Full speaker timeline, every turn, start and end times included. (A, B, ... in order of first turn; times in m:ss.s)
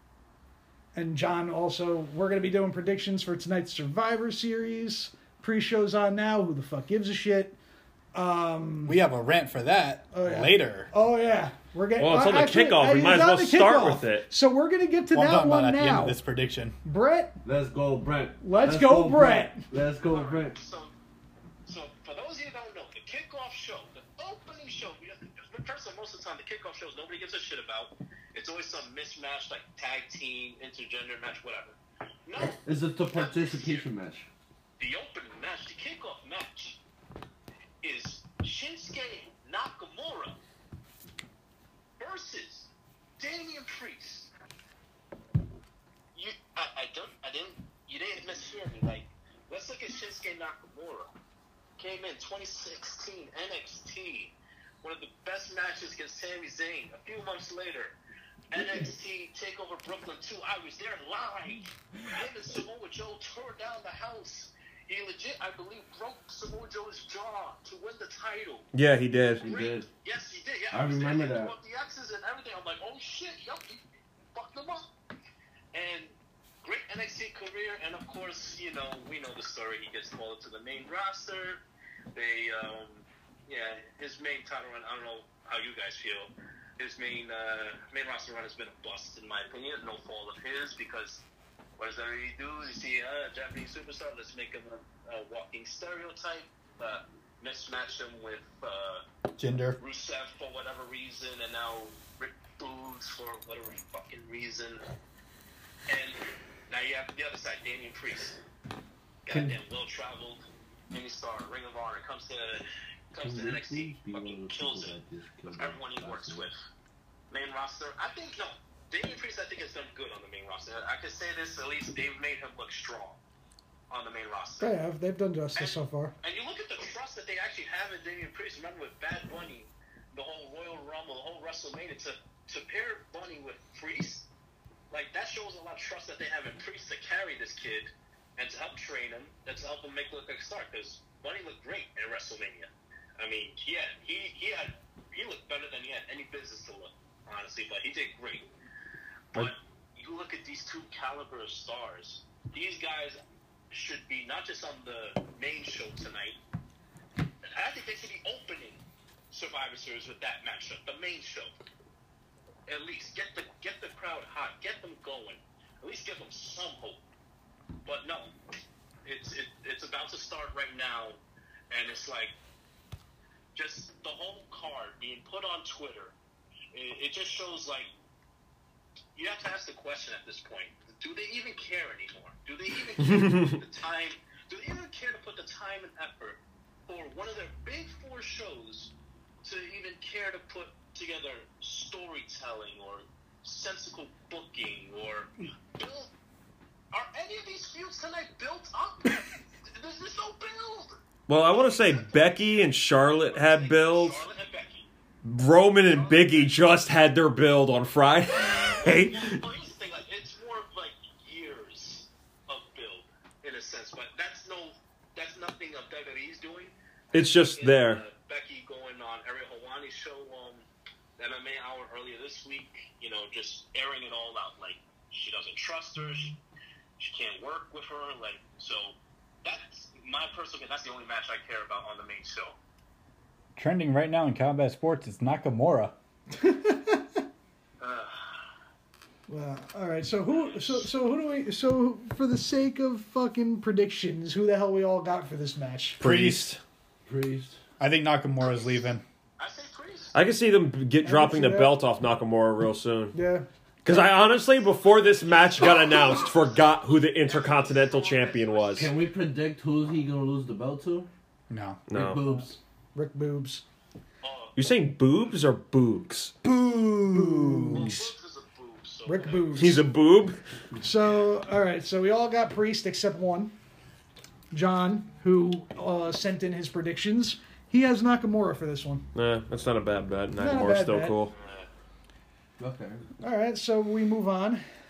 0:00.9-0:07.6 A
0:08.1-0:09.0 A
0:08.8-0:10.9 B
0:10.1-0:16.2 A
0:12.0-0:14.2 C
0:15.1-0:16.8 B
0:16.8-0:17.4 A
0:17.4-0:20.6 D
0:18.4-0:19.6 A
0:20.0-0:20.9 E
0:21.6-0:32.6 E
0:32.6-0:34.3 D
0:33.1-0:33.8 E
0:34.8-0:36.8 E
0:37.8-0:40.4 E
0:42.0-0:44.3 E
0:46.1-0:51.1 E
0:51.8-0:58.0 E
0:58.5-1:08.7 E
1:08.7-1:09.4 C
1:09.4-1:09.9 D
1:09.4-1:13.8 E
1:10.7-1:11.5 D
1:14.3-1:14.9 E
1:15.7-1:21.6 E
1:22.1-1:31.2 E
1:31.8-1:39.0 E
1:39.4-1:39.8 B
1:39.8-1:44.8 E
1:45.9-1:48.4 E
1:49.2-1:55.0 E
1:53.2-1:56.5 D
1:55.5-1:56.5 E
1:57.3-2:03.2 E
2:03.9-2:04.7 E
2:04.6-2:06.1 A
2:05.5-2:14.3 E
2:14.9-2:28.5 E
2:29.3-2:33.2 E
2:33.7-2:36.4 E
2:37.4-2:41.5 E
2:42.7-2:47.0 E
2:47.8-2:48.3 E
2:49.0-2:51.2 E
2:51.7-2:52.3 E
2:53.5-2:56.1 E
2:56.7-2:57.9 E
2:59.1-3:08.9 E
3:03.0-3:03.6 C
3:09.4-3:16.1 E
3:16.9-3:24.9 E
3:21.3-3:24.2 C
3:25.2-3:29.4 C
3:25.9-3:26.5 E
3:28.4-3:40.6 E
3:37.1-3:38.0 C
3:41.2-3:46.4 E
3:47.0-3:52.6 E
3:53.6-3:55.9 B
3:56.3-3:57.0 A
3:57.8-3:58.4 E
3:59.3-4:06.0 A
4:00.3-4:00.8 E
4:06.0-4:06.5 B
4:06.0-4:06.6 C
4:07.0-4:07.6 D
4:07.8-4:09.0 B
4:09.4-4:10.1 E
4:10.1-4:13.2 C
4:11.0-4:11.8 A
4:13.1-4:13.4 A
4:13.8-4:18.9 C
4:14.8-4:19.0 E
4:18.7-4:21.1 D
4:21.5-4:21.8 B
4:21.9-4:22.2 C
4:21.9-4:22.6 D
4:22.2-4:23.6 A
4:24.2-4:24.6 E
4:24.6-4:26.3 C
4:26.4-4:28.1 B
4:27.1-4:27.9 A
4:27.7-4:29.8 E
4:29.0-4:29.8 A
4:29.5-4:30.4 C
4:30.8-4:33.5 A
4:34.5-4:39.0 A
4:39.1-4:41.3 C
4:40.4-4:41.2 A
4:41.4-4:41.7 E
4:42.6-4:43.0 D
4:43.2-4:44.6 A